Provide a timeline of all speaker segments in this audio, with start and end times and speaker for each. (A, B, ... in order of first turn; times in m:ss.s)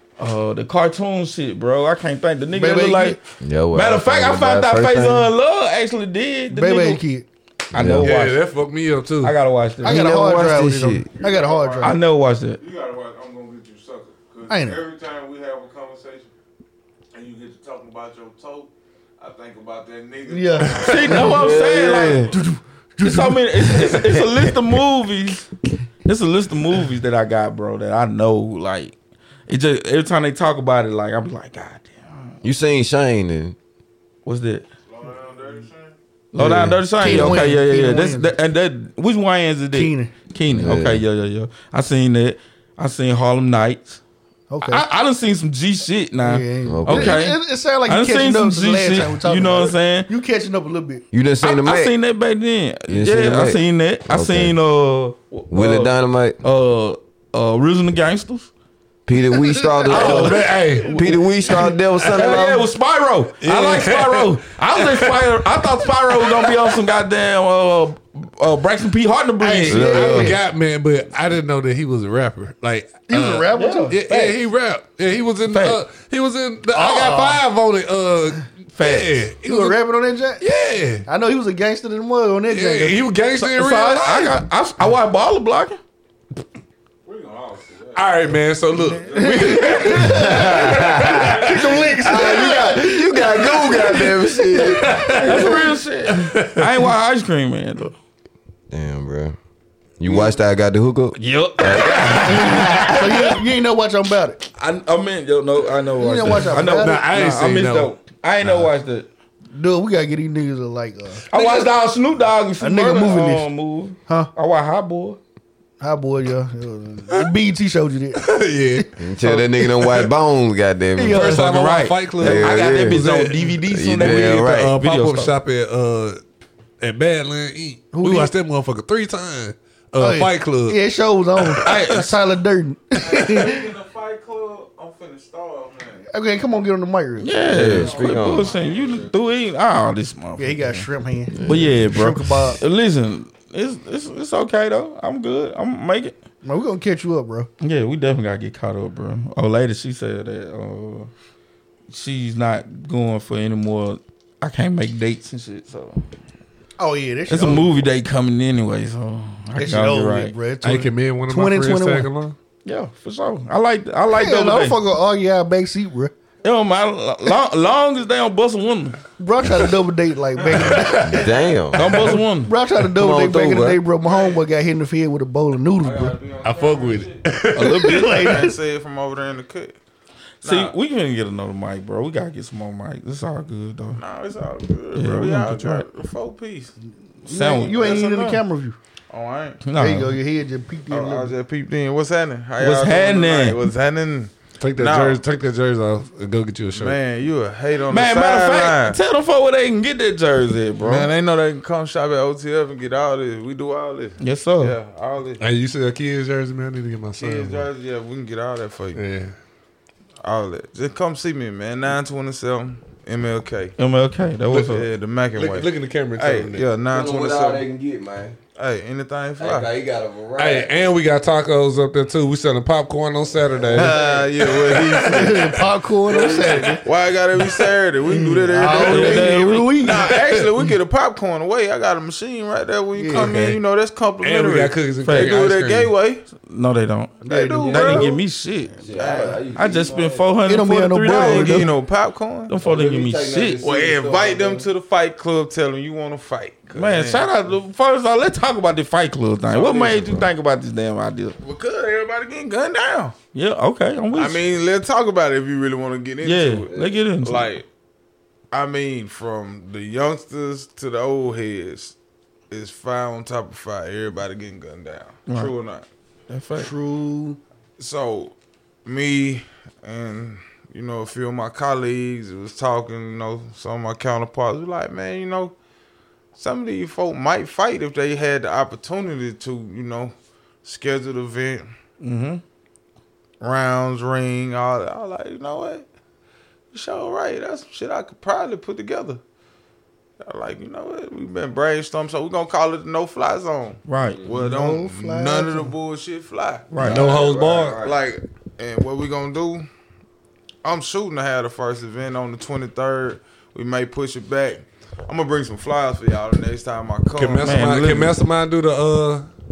0:00.2-0:03.2 A
0:02.5-0:03.2 B
0:03.4-0:05.3 C
0:03.7-0:07.0 A
0:06.5-0:07.2 B
0:07.7-0:08.1 C
0:07.7-0:08.4 A
0:07.9-0:09.4 D
0:09.2-0:10.2 A
0:09.8-0:12.0 B
0:09.8-0:11.1 C
0:11.1-0:12.0 E
0:11.8-0:12.6 A
0:12.6-0:16.3 E
0:14.5-0:14.8 B
0:17.1-0:22.0 E
0:20.3-0:21.5 B
0:20.8-0:22.4 A
0:21.1-0:22.4 C
0:22.3-0:24.0 B
0:23.0-0:25.5 A
0:23.8-0:24.5 C
0:26.0-0:28.9 A
0:29.5-0:32.3 A
0:32.4-0:33.6 C
0:34.2-0:34.6 A
0:34.9-0:35.9 E
0:36.3-0:44.0 A
0:36.3-0:37.5 C
0:36.9-0:38.3 B
0:39.7-0:40.1 B
0:40.5-0:41.0 C
0:44.5-0:44.8 B
0:44.6-0:50.1 A
0:46.2-0:51.0 B
0:46.6-0:47.2 C
0:51.1-0:51.9 C
0:51.4-0:58.5 A
0:52.9-0:54.5 C
0:55.5-0:56.4 C
0:59.1-1:02.7 C
0:59.9-1:01.0 D
0:59.9-1:00.9 A
0:59.9-1:01.6 B
1:02.1-1:10.4 A
1:03.4-1:05.5 D
1:06.1-1:06.8 D
1:09.4-1:19.8 D
1:09.7-1:10.4 C
1:13.1-1:14.0 B
1:13.5-1:14.4 A
1:15.5-1:15.8 A
1:16.7-1:17.4 B
1:18.8-1:19.2 A
1:19.4-1:20.4 B
1:20.4-1:21.0 D
1:21.0-1:23.0 B
1:22.5-1:24.4 D
1:23.3-1:25.8 A
1:27.0-1:28.3 E
1:27.9-1:30.4 D
1:29.0-1:30.0 E
1:29.1-1:34.8 B
1:30.1-1:35.5 C
1:30.8-1:31.3 E
1:34.7-1:35.6 D
1:34.8-1:37.9 A
1:36.1-1:36.9 D
1:38.7-1:39.4 C
1:40.0-1:43.0 C
1:41.2-1:43.4 A
1:42.1-1:44.4 B
1:44.6-1:49.1 A
1:46.0-1:47.1 B
1:46.7-1:47.9 D
1:49.5-1:51.2 B
1:51.3-1:55.2 A
1:51.3-1:51.7 D
1:52.6-1:53.5 B
1:55.8-1:58.8 B
1:58.2-2:00.1 D
1:59.0-2:01.3 C
2:01.0-2:01.5 B
2:01.0-2:05.3 A
2:01.2-2:06.2 D
2:02.2-2:03.1 C
2:03.6-2:04.8 C
2:06.8-2:10.8 D
2:07.9-2:08.3 B
2:10.0-2:13.7 B
2:11.4-2:11.9 D
2:11.6-2:12.1 A
2:13.0-2:16.1 E
2:16.1-2:17.3 B
2:17.2-2:26.2 A
2:17.5-2:18.6 C
2:17.6-2:19.2 E
2:20.4-2:22.6 B
2:21.3-2:21.8 C
2:26.4-2:27.5 B
2:27.6-2:31.1 A
2:31.9-2:36.0 A
2:36.8-2:37.8 B
2:37.3-2:40.3 A
2:39.6-2:42.1 B
2:40.6-2:42.3 D
2:42.6-2:44.8 A
2:44.1-2:46.1 B
2:46.4-2:49.0 A
2:49.2-2:51.4 B
2:50.8-2:51.3 E
2:51.0-2:52.1 C
2:51.7-2:52.5 A
2:51.8-2:52.2 D
2:52.4-2:56.2 B
2:52.9-2:53.8 C
2:54.0-2:54.4 E
2:55.8-2:59.8 E
2:56.4-2:58.4 D
2:57.5-2:58.2 A
2:57.6-2:58.6 B
3:00.4-3:04.0 A
3:00.4-3:00.7 E
3:04.0-3:06.7 E
3:04.9-3:05.8 A
3:07.2-3:08.8 B
3:07.3-3:07.8 A
3:07.6-3:08.4 E
3:09.1-3:09.6 E
3:09.6-3:10.2 A
3:09.8-3:11.3 B
3:10.9-3:15.2 E
3:12.6-3:13.7 A
3:14.6-3:17.0 D
3:16.7-3:19.0 E
3:17.9-3:21.1 A
3:20.8-3:25.4 E
3:24.2-3:24.7 A
3:25.4-3:27.7 D
3:27.2-3:29.0 E
3:28.9-3:29.3 D
3:30.2-3:33.8 E
3:33.8-3:34.8 A
3:34.7-3:37.7 E
3:35.4-3:36.7 D
3:36.9-3:38.4 C
3:38.6-3:39.7 E
3:39.4-3:40.7 C
3:40.4-3:45.5 D
3:43.6-3:44.2 C
3:43.8-3:44.2 B
3:43.8-3:45.6 E
3:44.9-3:46.9 B
3:46.1-3:56.2 E
3:46.3-3:46.7 C
3:48.1-3:50.2 B
3:48.6-3:50.0 A
3:50.1-3:50.5 D
3:53.0-3:53.2 B
3:53.1-3:53.6 D
3:54.2-3:55.9 D
3:55.0-3:55.4 A
3:56.3-3:58.9 A
3:57.2-3:58.2 E
3:57.2-3:58.2 B
3:57.6-3:58.2 C
3:58.8-4:00.3 C
3:58.9-3:59.5 E
3:59.5-4:01.7 A
4:00.5-4:01.7 B
4:01.0-4:02.6 E
4:02.5-4:03.6 A
4:02.6-4:04.7 C
4:03.6-4:07.3 E
4:06.7-4:11.4 A
4:09.4-4:10.3 E
4:11.4-4:13.2 E
4:13.3-4:14.4 A
4:14.1-4:17.6 E
4:16.2-4:17.5 A
4:16.7-4:17.0 C
4:18.5-4:21.9 E
4:22.5-4:25.8 E
4:25.3-4:25.5 A
4:26.3-4:26.7 A
4:26.6-4:27.4 B
4:27.8-4:28.3 E
4:28.8-4:35.5 E
4:36.3-4:41.7 E
4:42.0-4:42.4 A
4:43.4-4:45.8 E
4:46.7-4:49.2 E
4:50.2-4:59.6 E
4:53.9-4:54.2 A
4:54.3-4:55.7 B
4:56.7-4:57.1 A
4:56.8-4:57.8 D
4:56.8-4:57.9 C
5:00.6-5:07.7 E
5:07.2-5:09.3 D
5:07.4-5:08.2 A